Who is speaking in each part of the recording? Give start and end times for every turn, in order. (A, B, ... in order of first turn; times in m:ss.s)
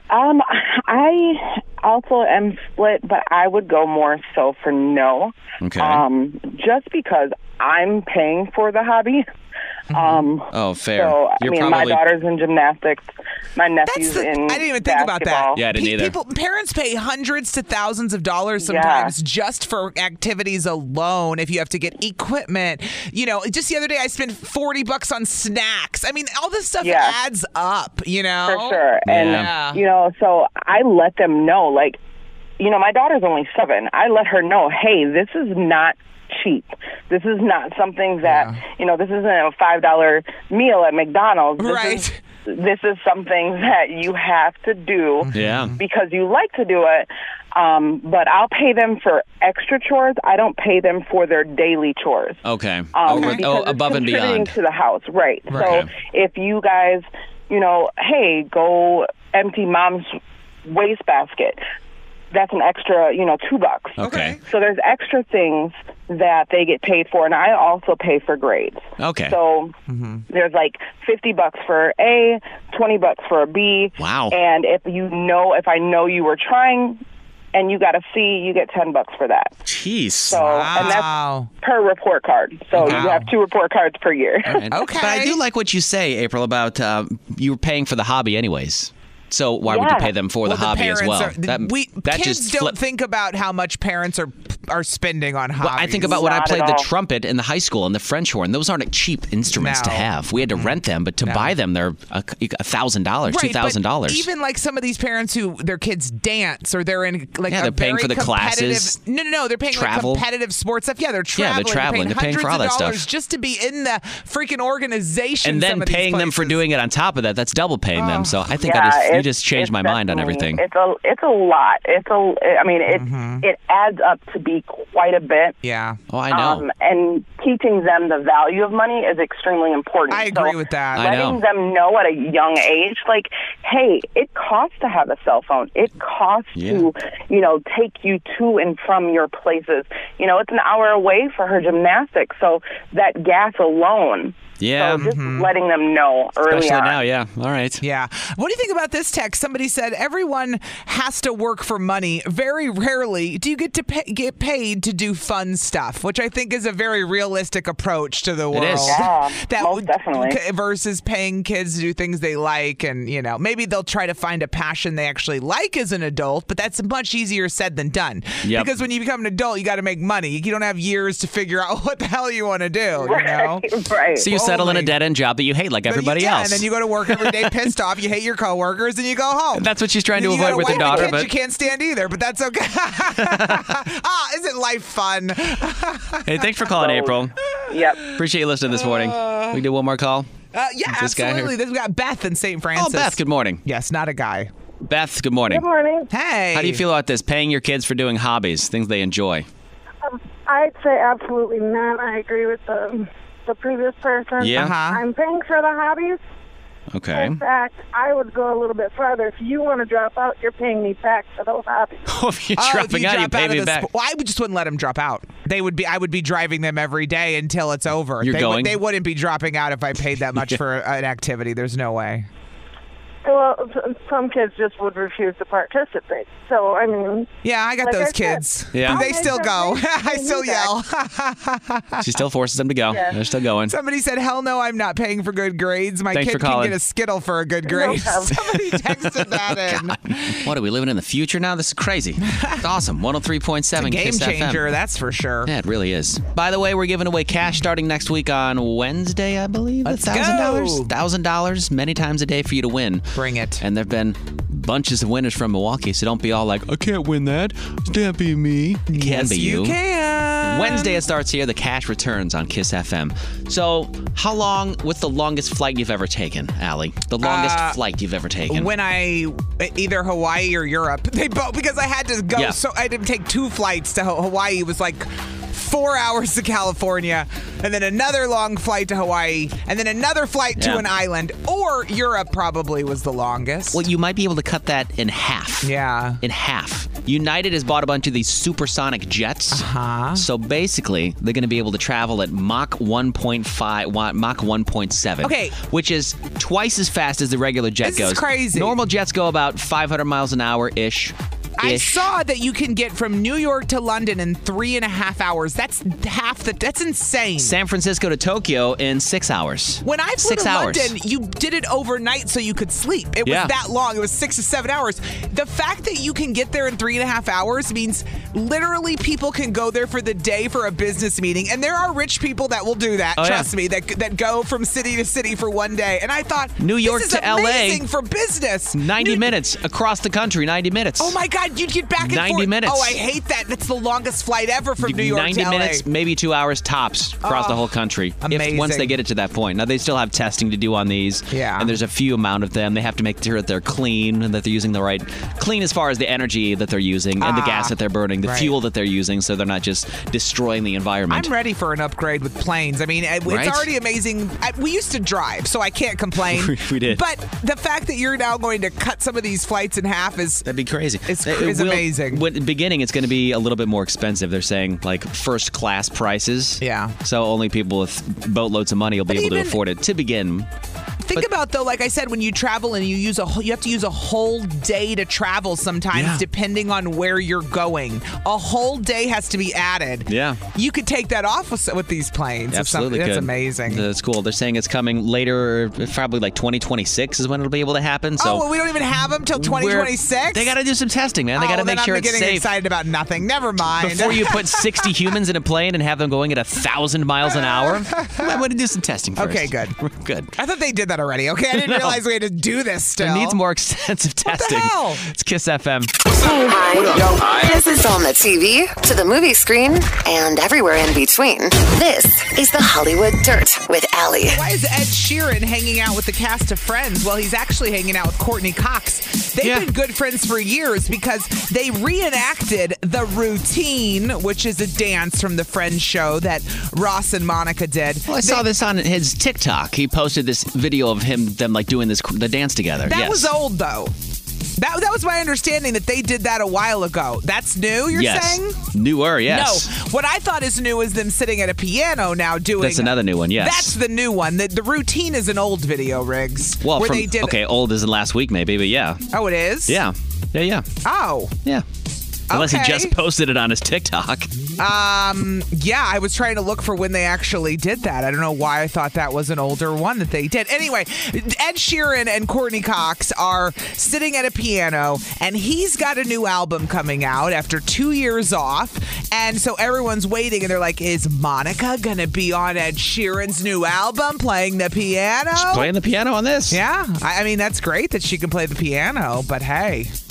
0:00.1-0:09.2 A
0:05.6-0:06.0 B
0:09.9-0:10.3 C
0:09.9-0:15.6 A
0:10.5-0:12.0 B
0:13.9-0:29.8 C
0:15.6-0:16.2 B
0:18.6-0:19.1 A
0:26.8-0:27.2 A
0:28.5-0:32.0 A
0:29.0-0:29.5 B
0:32.6-0:52.4 A
0:38.2-0:38.6 C
0:41.6-0:42.2 C
0:45.3-0:45.8 C
0:45.3-0:45.8 B
0:52.4-0:54.5 B
0:52.9-1:01.6 A
0:53.1-0:53.4 C
0:55.5-0:55.8 C
0:55.5-0:55.9 B
1:02.3-1:09.7 A
1:04.0-1:04.4 B
1:04.0-1:04.4 C
1:09.0-1:09.4 B
1:09.9-1:10.2 C
1:10.3-1:17.0 A
1:14.0-1:14.4 B
1:17.5-1:19.6 A
1:19.7-1:21.0 B
1:20.3-1:24.7 A
1:20.3-1:21.5 C
1:22.7-1:23.2 B
1:22.8-1:23.3 C
1:24.5-1:32.8 B
1:24.7-1:25.4 C
1:29.6-1:30.1 A
1:30.4-1:36.2 C
1:35.6-1:44.3 B
1:36.0-1:36.9 A
1:39.5-1:41.5 C
1:43.3-1:56.6 C
1:47.5-1:49.0 B
1:49.7-1:50.2 B
1:51.4-1:53.0 B
1:55.4-2:00.6 B
1:58.0-1:58.4 C
1:58.6-2:05.6 A
2:02.9-2:03.5 C
2:05.6-2:06.0 C
2:06.1-2:06.7 B
2:06.3-2:27.0 A
2:10.1-2:11.1 C
2:11.0-2:11.4 B
2:16.6-2:16.9 B
2:24.6-2:25.1 B
2:24.9-2:25.5 C
2:26.5-2:27.8 B
2:27.8-2:53.7 C
2:38.5-2:39.1 B
2:38.9-2:40.4 A
2:48.4-2:48.7 B
2:53.0-2:54.3 A
2:54.2-2:57.6 B
2:54.2-2:54.9 C
2:55.9-3:08.1 C
2:59.5-3:01.3 B
3:03.2-3:03.8 B
3:06.3-3:07.4 B
3:07.7-3:08.1 A
3:08.0-3:10.3 B
3:08.7-3:09.6 C
3:10.5-3:14.5 C
3:10.9-3:11.5 B
3:12.8-3:13.6 B
3:14.8-3:15.7 B
3:15.5-3:16.1 D
3:16.1-3:16.8 C
3:16.5-3:19.5 B
3:20.0-3:26.2 D
3:24.4-3:24.8 B
3:24.6-3:25.0 C
3:26.9-3:27.4 B
3:27.1-3:32.0 D
3:32.1-3:33.9 B
3:32.6-3:42.3 C
3:38.2-3:38.8 B
3:43.2-3:50.7 D
3:47.4-3:52.1 C
3:48.7-3:49.1 B
3:52.0-3:53.7 B
3:53.7-4:00.5 C
3:56.1-3:56.8 B
3:57.7-3:58.3 D
3:58.6-4:04.7 B
4:02.2-4:02.6 C
4:03.8-4:05.5 C
4:05.5-4:19.8 B
4:09.8-4:10.9 C
4:13.2-4:13.6 C
4:18.9-4:21.0 C
4:20.4-4:28.7 B
4:27.2-4:27.8 C
4:28.5-4:43.8 C
4:40.6-4:40.8 B
4:43.7-4:45.7 B
4:45.6-4:46.2 C
4:46.2-5:02.0 B
4:49.5-4:50.2 C
4:55.2-4:55.6 C
4:57.8-4:58.8 C
5:01.6-5:07.6 C
5:07.4-5:10.9 B
5:09.8-5:29.3 C
5:13.2-5:13.5 B
5:23.2-5:23.5 B
5:26.6-5:27.8 B
5:28.7-5:31.2 B
5:31.0-5:35.8 C
5:32.0-5:33.0 B
5:34.8-5:51.3 B
5:37.2-5:37.6 C
5:38.2-5:39.0 C
5:41.3-5:41.7 C
5:47.2-5:48.5 C
5:51.1-6:00.5 C
5:53.3-5:53.7 B
5:56.3-5:57.0 B
6:00.4-6:10.5 B
6:01.1-6:02.2 C
6:06.6-6:06.9 C
6:09.1-6:09.6 C
6:11.0-6:23.8 C
6:15.9-6:16.2 B
6:20.1-6:20.4 B
6:22.5-6:28.5 B
6:28.2-6:30.5 C
6:29.4-6:32.5 B
6:31.4-6:34.6 C
6:33.8-6:40.3 B
6:37.3-6:38.4 C
6:39.2-6:39.8 C
6:40.4-6:43.4 C
6:41.5-6:42.0 B
6:43.0-6:45.9 B
6:44.3-6:45.0 C
6:46.2-6:54.4 E
6:54.3-7:08.4 C
6:59.4-6:59.7 B
7:08.1-7:13.3 B
7:12.9-7:13.9 C
7:14.6-7:18.6 C
7:17.9-7:19.7 B
7:19.3-7:27.4 C
7:22.6-7:23.8 B
7:26.6-7:29.1 B
7:29.1-7:29.8 C
7:29.7-7:30.7 B
7:30.8-7:31.4 C
7:32.3-7:33.0 C
7:32.3-7:34.3 B
7:34.6-7:55.7 C
7:55.4-7:56.6 B
7:56.5-7:59.9 C